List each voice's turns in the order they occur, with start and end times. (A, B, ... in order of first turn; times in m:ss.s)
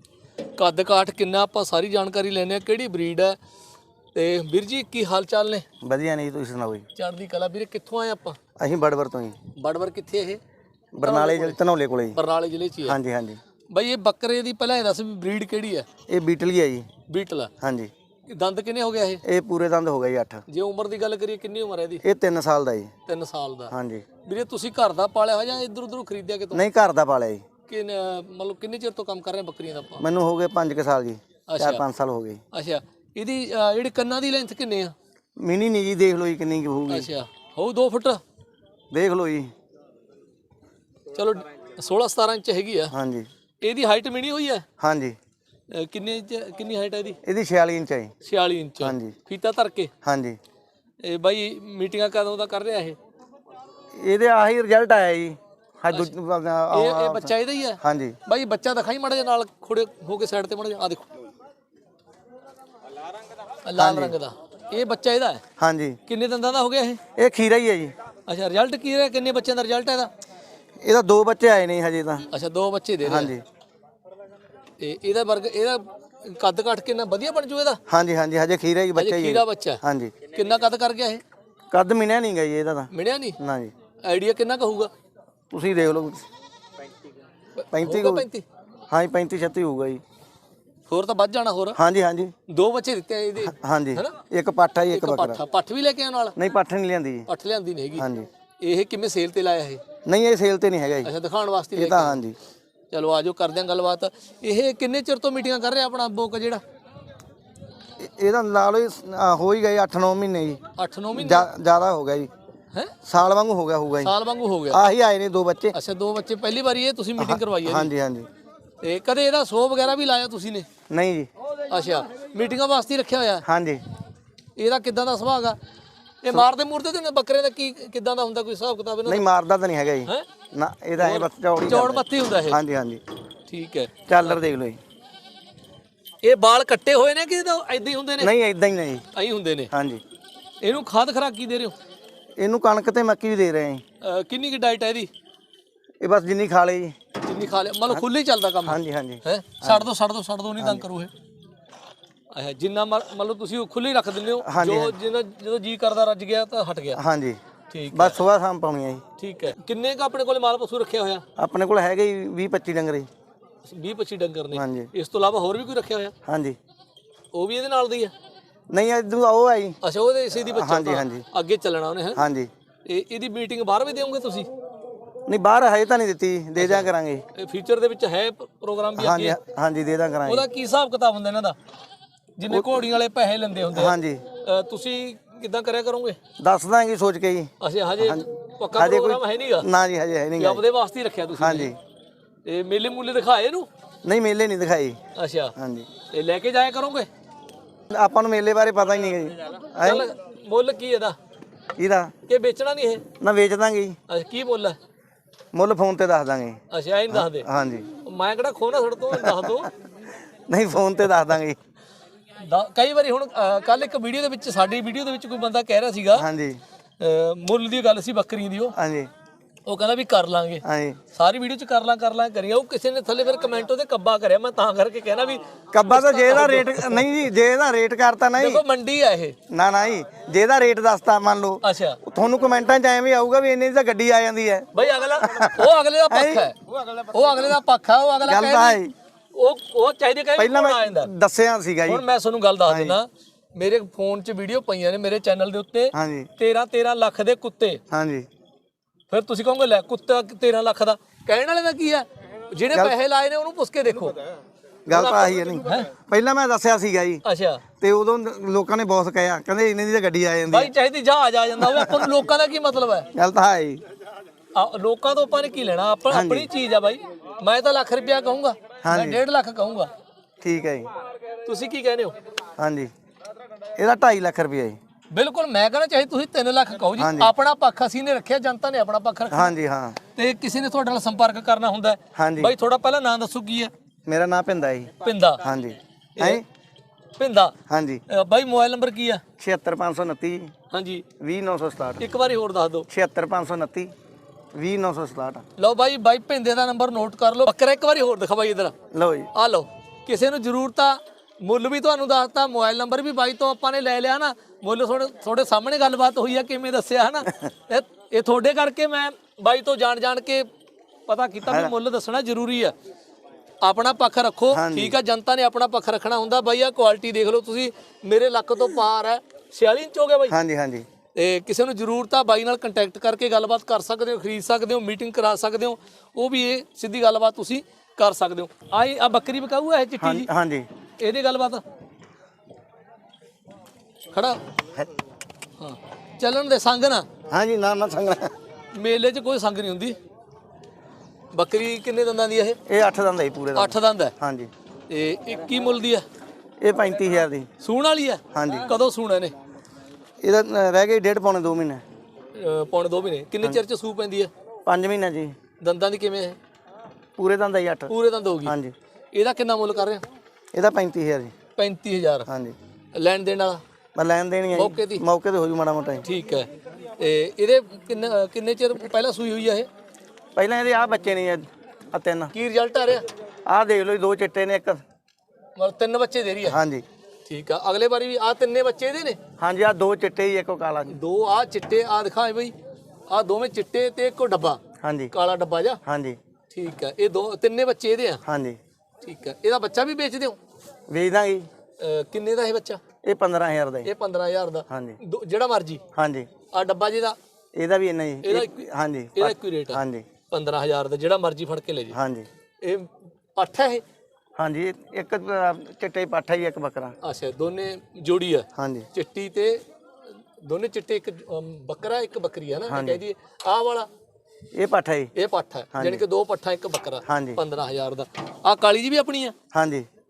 0:00.6-0:03.4 A
0:04.2-0:05.6 A
0:05.8-0:06.9 B
0:07.0-0:08.4 A
0:08.6-0:09.4 B
0:09.6-0:10.4 A
0:10.9-0:12.2 B
0:11.0-0:11.6 A
0:12.2-0:13.0 A
0:12.8-0:13.4 B
0:13.7-0:15.9 A
0:16.1-0:16.9 B
0:17.1-0:17.5 A
0:17.6-0:17.9 B
0:18.3-0:19.2 A
0:19.2-0:20.4 B
0:20.5-0:22.0 A
0:22.0-0:22.9 B
0:23.1-0:26.6 A
0:23.7-0:24.1 B
0:26.5-0:27.4 B
0:27.7-0:30.0 A
0:30.0-0:32.4 B
0:31.5-0:31.8 A
0:32.5-0:34.9 A
0:35.4-0:37.1 B
0:36.9-0:38.2 A
0:38.9-0:39.5 B
0:41.1-0:42.9 A
0:42.9-0:43.3 B
0:43.6-0:44.6 A
0:44.8-0:45.2 B
0:45.7-0:47.2 A
0:47.2-0:48.1 B
0:48.2-0:49.9 A
0:48.8-0:49.2 B
0:50.0-0:50.4 B
0:51.0-0:53.0 A
0:54.0-0:58.2 B
0:56.7-1:01.1 A
1:03.6-1:05.4 A
1:03.8-1:04.2 B
1:05.6-1:06.0 B
1:06.1-1:07.0 A
1:07.2-1:07.9 B
1:08.3-1:10.1 A
1:10.8-1:12.3 B
1:12.3-1:13.3 A
1:13.0-1:13.4 B
1:14.8-1:17.8 A
1:17.9-1:20.2 B
1:19.0-1:21.2 A
1:21.7-1:23.7 B
1:22.9-1:23.4 A
1:24.0-1:24.9 A
1:25.5-1:26.2 B
1:27.6-1:28.4 A
1:27.7-1:28.3 B
1:28.9-1:30.0 B
1:30.9-1:31.8 A
1:31.8-1:32.3 B
1:32.5-1:34.2 A
1:33.4-1:35.4 B
1:34.9-1:36.4 A
1:36.4-1:37.3 B
1:37.3-1:38.1 A
1:38.0-1:38.3 B
1:38.6-1:39.8 A
1:40.1-1:41.1 B
1:41.0-1:42.2 A
1:41.8-1:42.4 B
1:42.9-1:46.6 A
1:48.0-1:50.6 B
1:50.8-1:51.5 A
1:51.1-1:52.3 B
1:53.0-1:54.1 B
1:54.0-1:54.8 A
1:54.7-1:55.8 B
1:55.7-1:57.9 A
1:57.2-1:58.3 B
1:58.8-2:00.7 A
2:00.9-2:01.3 B
2:01.7-2:03.4 A
2:03.4-2:03.8 B
2:04.6-2:05.6 A
2:06.2-2:09.2 A
2:09.0-2:13.0 B
2:11.0-2:12.6 A
2:13.5-2:14.4 A
2:14.1-2:14.8 B
2:16.2-2:18.3 A
2:18.2-2:19.0 B
2:19.1-2:19.7 A
2:19.7-2:20.0 B
2:20.6-2:21.8 A
2:22.4-2:23.8 B
2:24.0-2:25.1 A
2:26.0-2:27.0 B
2:27.2-2:31.1 A
2:28.6-2:29.9 B
2:30.6-2:30.8 B
2:32.3-2:37.0 A
2:34.4-2:35.0 B
2:36.9-2:39.0 B
2:37.7-2:38.2 A
2:39.2-2:41.2 A
2:41.4-2:43.1 B
2:43.6-2:46.1 A
2:44.5-2:44.9 B
2:46.2-2:46.6 B
2:47.3-2:48.1 A
2:48.7-2:49.8 B
2:49.8-2:52.2 A
2:50.4-2:51.3 B
2:52.2-2:52.5 B
2:52.9-2:54.5 A
2:55.3-2:57.3 B
2:56.6-2:59.4 A
2:59.0-3:00.5 B
3:00.2-3:01.6 A
3:02.4-3:06.2 A
3:02.5-3:02.9 B
3:03.7-3:04.2 B
3:06.4-3:10.6 B
3:07.6-3:09.7 A
3:10.4-3:11.8 A
3:11.4-3:11.8 B
3:12.4-3:13.7 A
3:14.0-3:15.0 B
3:15.2-3:15.5 A
3:15.6-3:15.9 B
3:16.1-3:17.1 A
3:17.9-3:20.1 B
3:19.8-3:21.2 A
3:21.8-3:22.1 B
3:22.3-3:23.0 A
3:23.2-3:24.0 B
3:24.1-3:24.8 A
3:25.5-3:26.6 B
3:26.7-3:27.5 A
3:27.1-3:27.9 B
3:28.0-3:29.7 A
3:29.1-3:29.6 B
3:30.5-3:31.6 B
3:32.4-3:36.3 A
3:36.1-3:36.6 B
3:37.0-3:38.8 A
3:38.8-3:39.1 B
3:39.7-3:47.1 A
3:40.6-3:41.0 B
3:45.7-3:48.6 B
3:48.4-3:49.4 A
3:49.5-3:56.9 B
3:51.6-3:52.0 A
3:54.7-3:56.6 A
3:57.1-3:58.8 A
3:58.2-3:58.9 B
3:59.3-4:01.1 A
4:00.4-4:02.0 B
4:01.9-4:07.8 A
4:02.6-4:03.0 B
4:05.9-4:06.3 B
4:07.9-4:08.3 B
4:09.1-4:14.3 A
4:14.9-4:17.2 B
4:14.9-4:15.9 A
4:17.2-4:17.6 A
4:17.8-4:20.7 B
4:20.5-4:23.1 A
4:21.6-4:22.1 B
4:23.1-4:23.8 B
4:24.5-4:29.9 A
4:26.1-4:26.5 B
4:28.8-4:29.2 B
4:30.4-4:30.9 B
4:31.4-4:32.2 A
4:32.6-4:32.9 B
4:33.8-4:34.8 B
4:35.1-4:39.5 A
4:37.0-4:37.3 B
4:39.3-4:40.0 B
4:40.2-4:43.7 A
4:42.2-4:42.6 B
4:44.1-4:46.4 B
4:45.0-4:45.4 A
4:46.2-4:46.4 A
4:47.2-4:47.6 A
4:47.7-4:48.0 B
4:48.1-4:49.2 A
4:49.4-4:50.5 B
4:50.7-4:51.0 A
4:51.2-4:52.0 B
4:52.0-4:52.9 A
4:52.9-4:53.9 B
4:54.5-4:55.4 B
4:55.6-4:58.7 A
4:58.9-4:59.3 B
4:59.3-5:10.5 A
5:11.1-5:12.7 A
5:11.4-5:11.7 B
5:13.6-5:20.4 A
5:14.5-5:15.0 B
5:20.3-5:20.9 B
5:21.1-5:30.3 A
5:30.0-5:30.7 B
5:31.0-5:31.6 A
5:34.1-5:34.4 A
5:35.6-5:37.1 A
5:37.3-5:38.3 B
5:38.7-5:40.0 A
5:41.3-5:42.6 A
5:42.7-5:44.5 B
5:43.6-5:44.2 A
5:44.9-5:46.0 A
5:46.6-5:47.5 B
5:47.6-5:49.4 A
5:48.3-5:48.7 B
5:50.2-5:51.8 B
5:52.3-5:54.3 A
5:54.7-5:55.4 B
5:55.6-5:56.4 A
5:57.2-5:57.9 B
5:57.9-5:58.6 A
5:58.4-5:58.7 B
5:59.1-6:00.0 A
6:00.5-6:01.3 B
6:01.6-6:02.3 A
6:02.3-6:02.6 B
6:03.0-6:03.6 A
6:04.0-6:06.0 B
6:04.5-6:05.0 A
6:06.0-6:09.7 A
6:10.4-6:12.3 B
6:12.3-6:13.1 A
6:13.5-6:14.8 B
6:15.6-6:16.6 A
6:16.4-6:16.8 B
6:17.3-6:19.2 A
6:19.4-6:21.0 B
6:20.9-6:22.5 A
6:23.1-6:24.6 A
6:24.8-6:25.1 B
6:25.1-6:25.8 A
6:25.8-6:26.2 B
6:26.5-6:28.2 A
6:28.2-6:28.6 B
6:29.0-6:30.4 A
6:30.9-6:31.5 B
6:31.8-6:32.8 A
6:33.0-6:33.9 B
6:33.8-6:35.8 A
6:34.7-6:35.0 B
6:36.0-6:36.3 B
6:36.5-6:37.2 A
6:37.6-6:40.1 B
6:38.2-6:42.0 A
6:41.9-6:42.3 B
6:42.6-6:43.8 A
6:44.4-6:47.0 B
6:47.0-6:49.6 A
6:48.6-6:48.9 B
6:50.4-6:53.9 A
6:52.7-6:53.0 B
6:54.5-6:55.1 B
6:55.2-6:59.4 A
6:55.7-6:56.0 B
6:57.1-6:57.4 B
6:59.5-6:59.9 B